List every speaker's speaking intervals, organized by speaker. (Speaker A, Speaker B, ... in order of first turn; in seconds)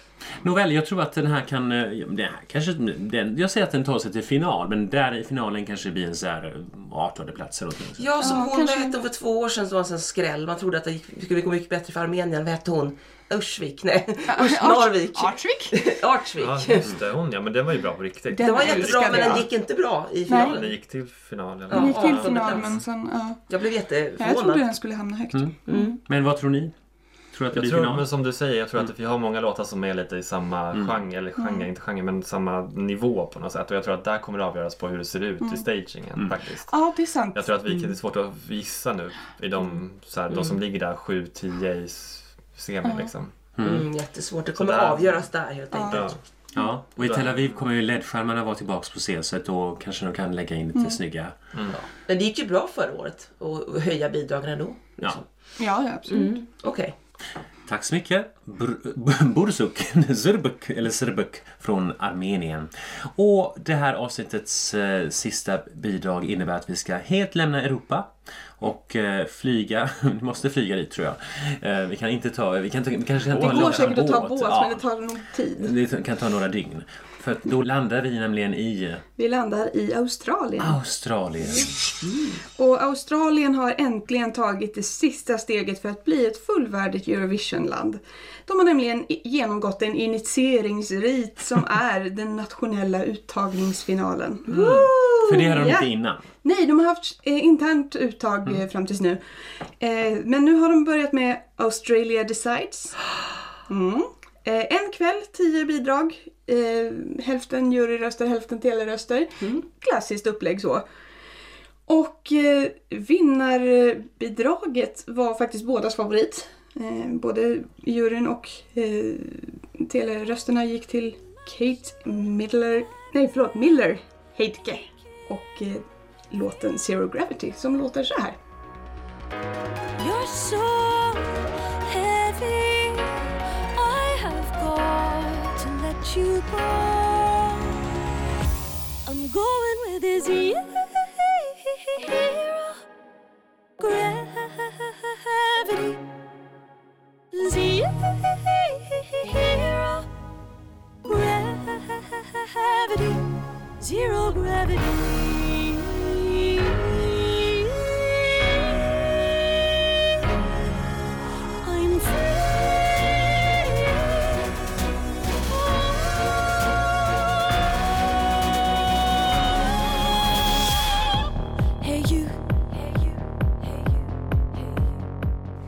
Speaker A: 0.4-8.3, 25.3-26.7, 27.3-28.1, 30.7-31.0, 43.6-43.9, 46.5-51.4, 57.7-74.8, 75.6-79.0, 80.6-81.8, 94.5-96.2
Speaker B: 8.0-16.9, 18.4-20.8, 21.7-22.8, 23.5-24.7, 25.7-26.0, 43.6-46.1, 52.0-55.3, 56.1-56.9, 94.5-95.3
Speaker C: 8.2-9.0, 14.3-15.8, 18.3-19.5, 20.3-20.6, 21.7-23.4, 24.2-26.0, 31.4-31.7, 36.7-37.5, 42.9-43.1, 45.7-46.1, 55.6-56.4, 73.4-75.7, 79.2-80.8, 82.6-95.9, 96.4-99.2, 99.8-103.0, 103.7-110.8, 111.9-128.4
Speaker D: 16.4-19.5, 20.4-22.8, 27.5-36.7, 37.3-43.3, 44.5-45.3, 45.9-46.2, 47.0-47.4, 51.5-51.8, 73.2-74.0
Speaker E: 130.0-137.8, 139.1-142.8, 143.8-146.1, 147.3-150.1, 151.0-160.0, 161.6-164.1, 165.7-166.3, 169.4-170.1, 171.8-173.9